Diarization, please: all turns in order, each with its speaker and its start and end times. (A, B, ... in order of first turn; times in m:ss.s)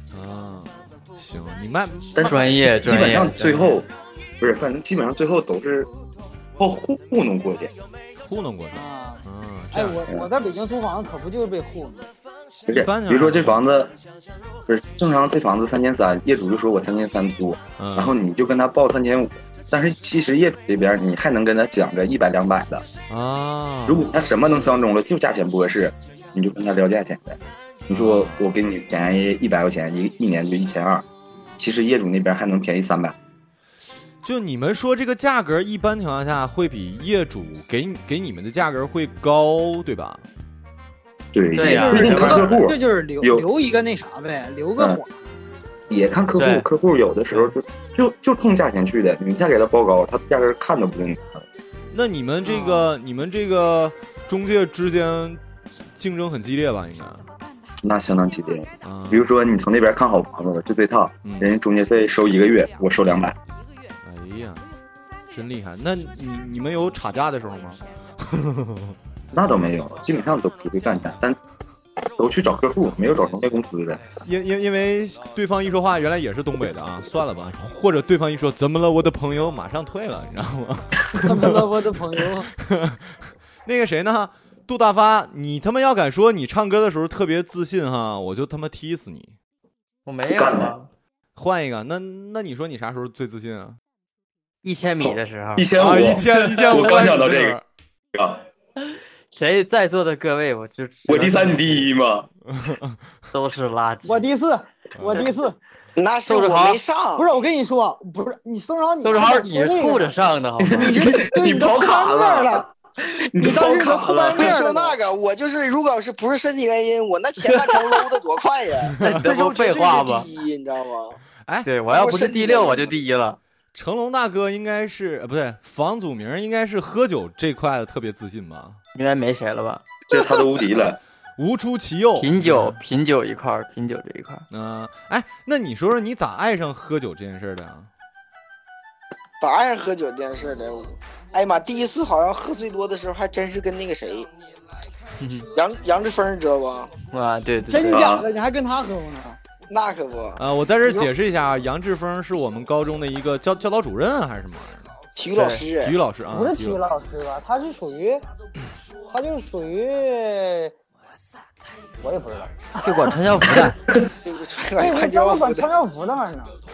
0:00.1-0:02.5 A
0:02.2-0:03.9 B
0:02.2-0:03.8 C
0:04.4-0:05.9 B
0:06.6-0:07.7 B
0:08.2-0:10.0 A
0:08.7-0:12.1 D
0:12.6-0:14.0 B
0:12.7-0:13.6 A
0:14.7-0:22.9 B
0:17.8-0:18.1 A
0:23.1-0:24.2 A
0:23.9-0:27.4 B
0:27.9-0:28.5 A
0:27.9-0:31.0 B
0:31.6-0:33.1 B
0:34.2-0:40.2 A
0:41.3-0:43.4 B
0:41.6-0:42.6 C
0:41.6-0:45.1 D
0:45.9-0:51.4 B
0:46.4-0:46.7 C
0:51.9-0:55.4 A
0:52.4-0:52.9 D
0:56.0-0:57.3 A
0:57.8-1:03.4 B
0:58.8-0:59.3 A
1:01.2-1:01.5 A
1:04.0-1:04.6 A
1:05.3-1:09.0 A
1:09.3-1:11.4 B
1:12.2-1:14.0 B
1:14.2-1:29.3 A
1:21.1-1:22.5 D
1:30.0-1:30.9 C
1:30.3-1:30.7 B
1:31.3-1:33.8 A
1:34.6-1:35.7 C
1:35.0-1:37.6 B
1:35.7-1:37.6 A
1:38.1-1:38.5 B
1:39.3-1:41.9 C
1:41.0-1:42.3 B
1:42.5-1:43.0 A
1:43.3-1:44.3 C
1:44.0-1:45.6 D
1:45.0-1:45.3 A
1:46.0-1:47.3 E
1:46.3-1:46.8 C
1:47.2-1:50.1 D
1:49.0-1:51.0 C
1:50.6-1:52.7 B
1:50.8-1:52.6 D
1:53.3-1:54.6 B
1:53.4-1:55.0 D
1:54.3-2:01.2 E
1:57.4-1:58.0 C
1:59.0-1:59.3 A
1:59.0-2:00.3 C
2:01.4-2:01.7 A
2:01.6-2:03.4 C
2:01.9-2:02.9 E
2:03.7-2:08.8 A
2:09.0-2:09.8 C
2:10.1-2:11.0 B
2:11.4-2:12.8 A
2:12.2-2:14.4 C
2:14.5-2:17.9 A
2:19.4-2:24.3 E
2:25.2-2:25.5 C
2:25.5-2:26.9 E
2:27.1-2:28.1 C
2:27.7-2:29.4 D
2:27.8-2:28.3 B
2:29.7-2:31.1 E
2:30.4-2:34.9 A
2:35.2-2:36.0 E
2:35.3-2:35.6 C
2:35.8-2:36.8 A
2:36.3-2:38.2 D
2:39.1-2:40.7 D
2:42.0-2:43.1 D
2:42.8-2:43.8 C
2:44.2-2:45.7 E
2:44.8-2:46.5 D